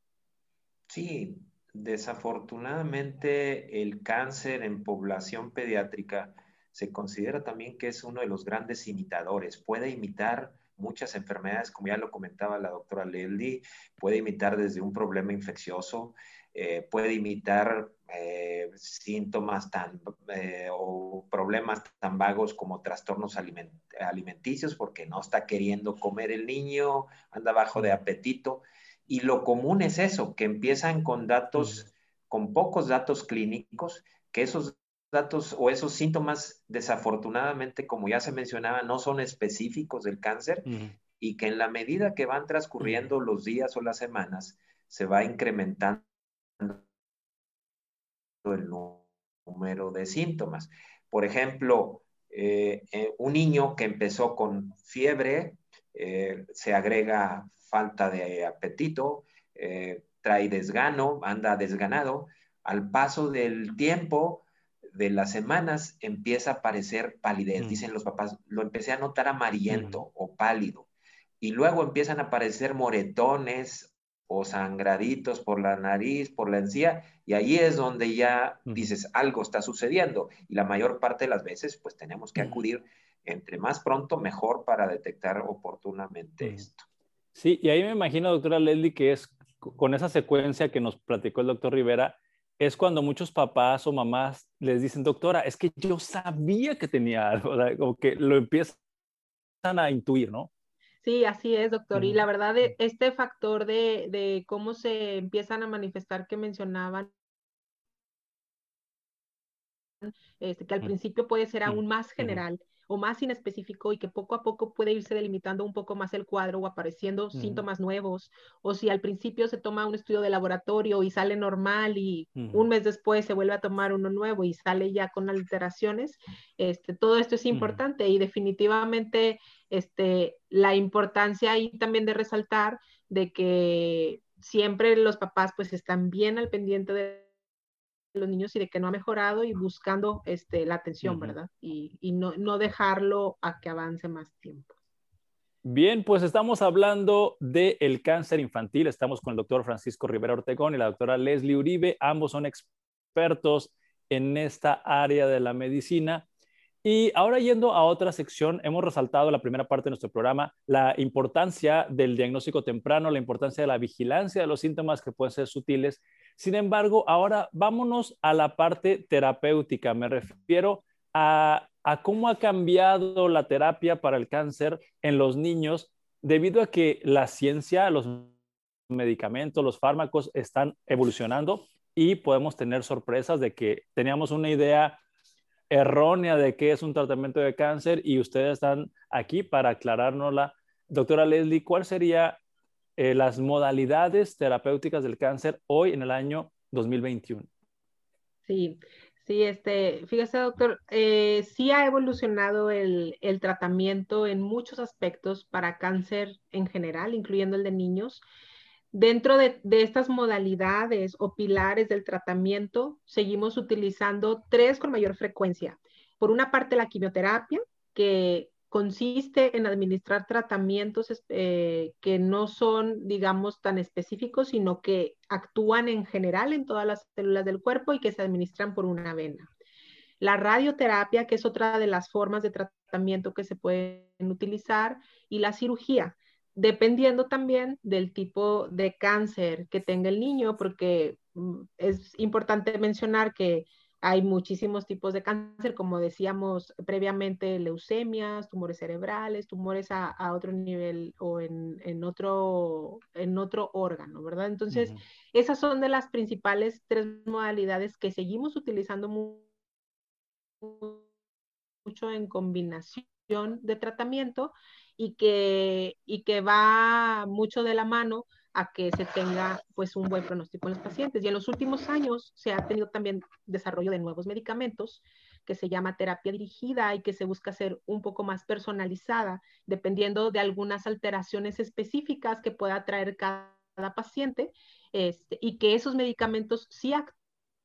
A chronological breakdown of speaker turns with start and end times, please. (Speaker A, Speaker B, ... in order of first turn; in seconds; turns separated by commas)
Speaker A: 0.9-46.0, Speaker B: 31.6-31.9, Speaker B: 40.7-41.0, Speaker A: 46.6-46.8, Speaker A: 48.4-70.9, Speaker B: 69.7-70.0, Speaker A: 71.4-86.9, Speaker B: 78.7-78.9, Speaker B: 87.3-98.8, Speaker B: 99.6-100.5, Speaker C: 101.0-107.1, Speaker B: 101.9-102.2, Speaker C: 110.0-137.3, Speaker B: 111.7-112.4, Speaker B: 117.3-117.7, Speaker B: 122.4-122.7, Speaker B: 127.5-127.8, Speaker C: 138.1-144.7, Speaker B: 141.0-141.4, Speaker B: 145.7-156.3, Speaker B: 156.8-178.3, Speaker B: 178.9-185.0, Speaker B: 185.7-192.4, Speaker B: 193.0-197.5, Speaker C: 198.5-208.2, Speaker C: 208.9-229.5, Speaker C: 230.2-259.5, Speaker B: 254.7-255.0, Speaker C: 260.6-261.1, Speaker C: 261.9-287.2